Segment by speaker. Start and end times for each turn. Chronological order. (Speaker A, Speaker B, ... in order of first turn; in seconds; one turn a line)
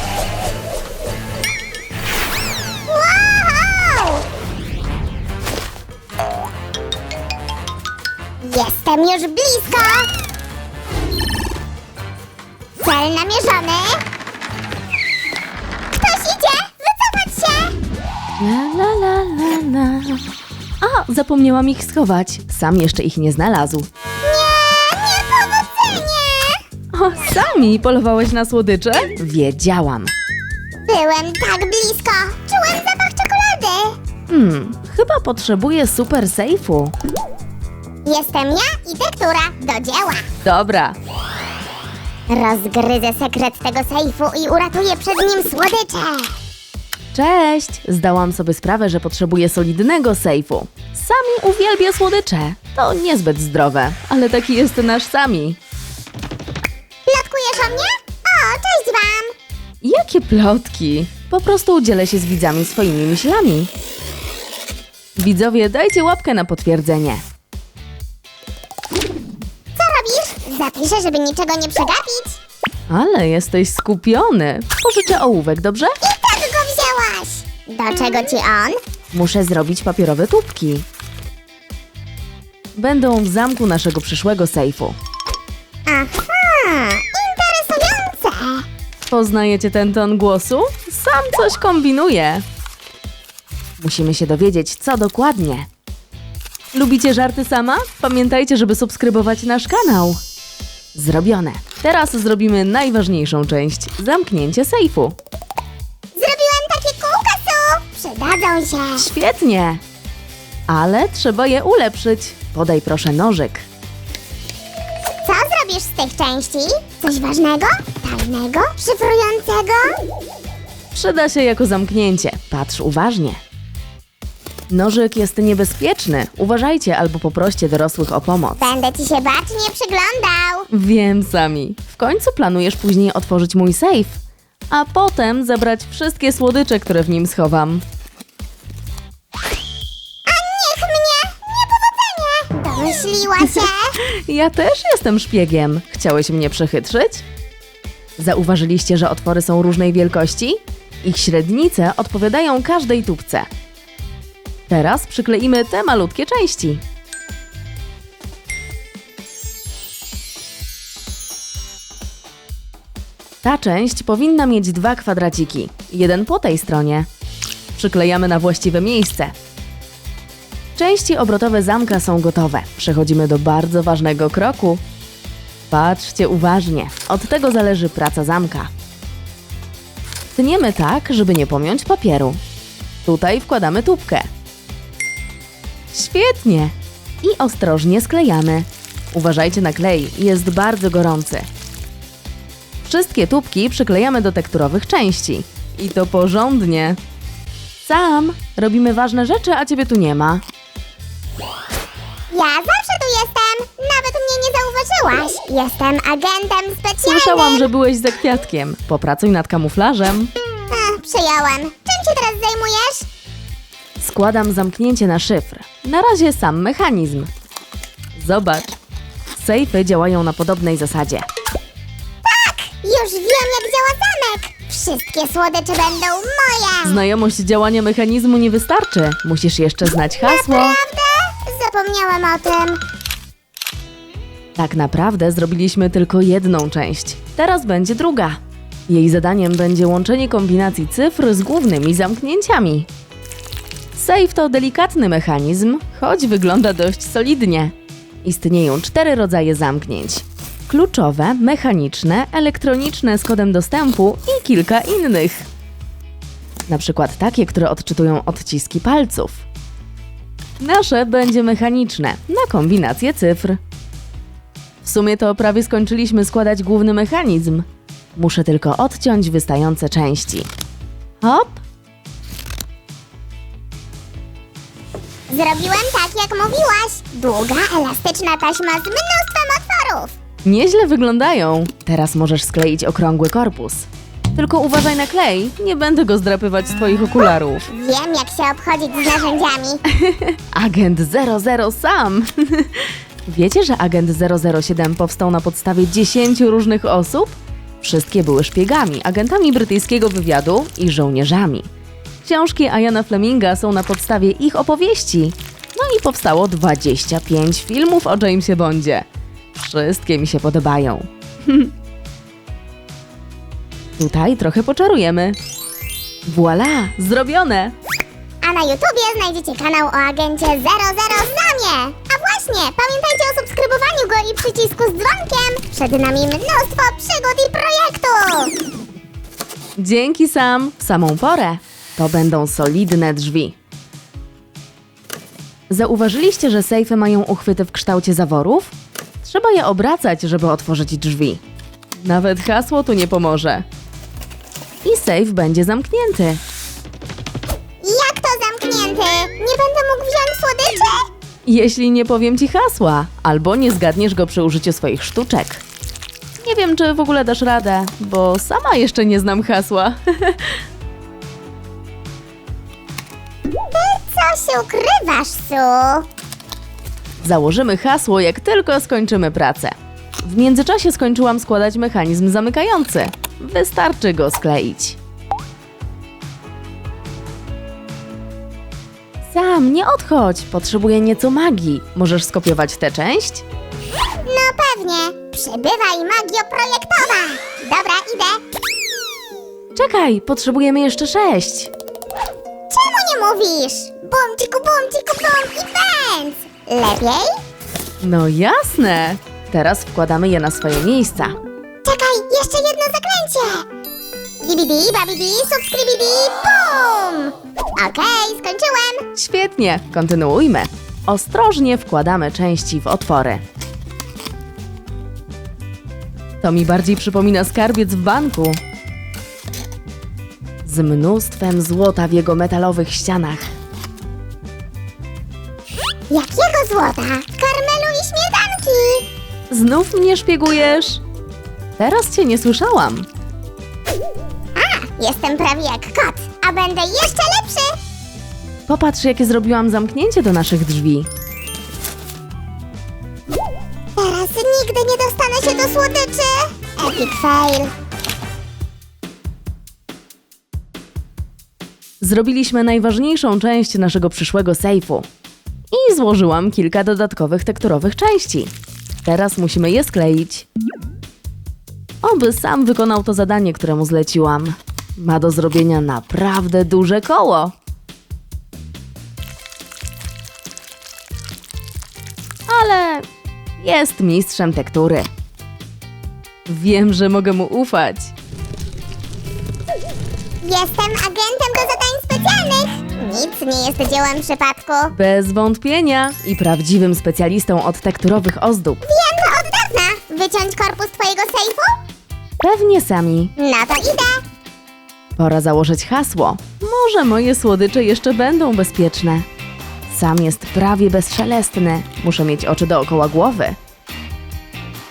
Speaker A: 2.9-4.2
Speaker A: 8.4-10.1
Speaker A: 12.8-14.0
Speaker A: 15.9-17.8
Speaker B: 18.4-20.3
Speaker B: 20.8-23.9
Speaker A: 24.2-26.6
Speaker B: 26.9-30.1
Speaker A: 30.9-34.0
Speaker B: 34.3-36.9
Speaker A: 38.0-40.3
Speaker B: 40.4-41.0
Speaker A: 42.3-46.3
Speaker B: 47.1-55.6
Speaker A: 57.1-59.3
Speaker B: 59.8-63.7
Speaker B: 65.2-67.2
Speaker A: 69.8-72.4
Speaker B: 72.9-76.0
Speaker A: 76.0-78.8
Speaker B: 79.1-80.9
Speaker B: 82.8-85.0
Speaker A: 85.9-88.7
Speaker B: 89.1-92.4
Speaker B: 93.8-95.7
Speaker B: 96.7-100.2
Speaker B: 101.0-105.2
Speaker A: 106.2-109.1
Speaker B: 109.0-109.8
Speaker B: 110.7-113.7
Speaker A: 115.2-120.0
Speaker B: 120.9-123.4
Speaker B: 124.7-128.6
Speaker A: 128.6-130.7
Speaker B: 130.7-134.2
Speaker B: 134.7-137.8
Speaker A: 140.3-143.9
Speaker B: 143.4-147.2
Speaker B: 148.2-153.5
Speaker B: 154.7-156.8
Speaker B: 163.4-167.1
Speaker B: 167.8-169.3
Speaker B: 170.8-174.8
Speaker B: 175.7-178.7
Speaker B: 180.4-182.4
Speaker B: 183.1-184.3
Speaker B: 185.9-191.5
Speaker B: 192.8-197.0
Speaker B: 197.8-200.4
Speaker A: 202.3-207.7
Speaker B: 207.1-210.3
Speaker A: 210.7-213.1
Speaker B: 214.0-217.3
Speaker B: 218.2-218.7
Speaker B: 219.3-221.3
Speaker A: 222.2-227.0
Speaker B: 226.8-230.8
Speaker A: 230.2-232.8
Speaker B: 234.6-242.9
Speaker B: 244.0-247.7
Speaker B: 248.2-255.5
Speaker B: 256.7-259.4
Speaker B: 260.6-263.6
Speaker B: 264.8-270.5
Speaker B: 271.2-271.6
Speaker A: 275.3-280.2
Speaker B: 280.4-287.7
Speaker A: 287.7-289.8
Speaker B: 289.9-301.7
Speaker B: 302.2-311.7
Speaker B: 314.0-315.4
Speaker B: 316.3-317.7
Speaker A: 318.4-328.5
Speaker B: 329.8-333.6
Speaker B: 335.7-341.4
Speaker B: 342.0-343.6
Speaker B: 344.8-346.4
Speaker A: 347.8-351.1
Speaker B: 351.4-355.6
Speaker B: 356.4-360.6
Speaker A: 363.7-366.1
Speaker B: 367.2-375.0
Speaker B: 379.3-383.4
Speaker A: 384.2-388.4
Speaker B: 389.7-391.7
Speaker A: 392.7-397.3
Speaker B: 398.0-401.4
Speaker A: 401.8-403.7
Speaker A: 404.4-409.1
Speaker B: 409.1-413.4
Speaker B: 416.4-418.6
Speaker B: 420.6-423.5
Speaker A: 426.1-429.1
Speaker B: 429.5-431.0
Speaker B: 431.8-433.1
Speaker A: 434.6-437.8
Speaker B: 438.7-441.1
Speaker A: 444.0-447.7
Speaker B: 452.0-455.1
Speaker B: 455.7-458.5
Speaker B: 459.1-460.5
Speaker B: 462.0-467.5
Speaker B: 472.5-473.1
Speaker B: 473.6-475.1
Speaker B: 476.5-478.1
Speaker A: 480.4-484.9
Speaker B: 484.9-488.8
Speaker A: 488.8-491.8
Speaker B: 492.4-493.3
Speaker A: 493.4-494.2
Speaker B: 495.2-499.3
Speaker B: 499.9-503.6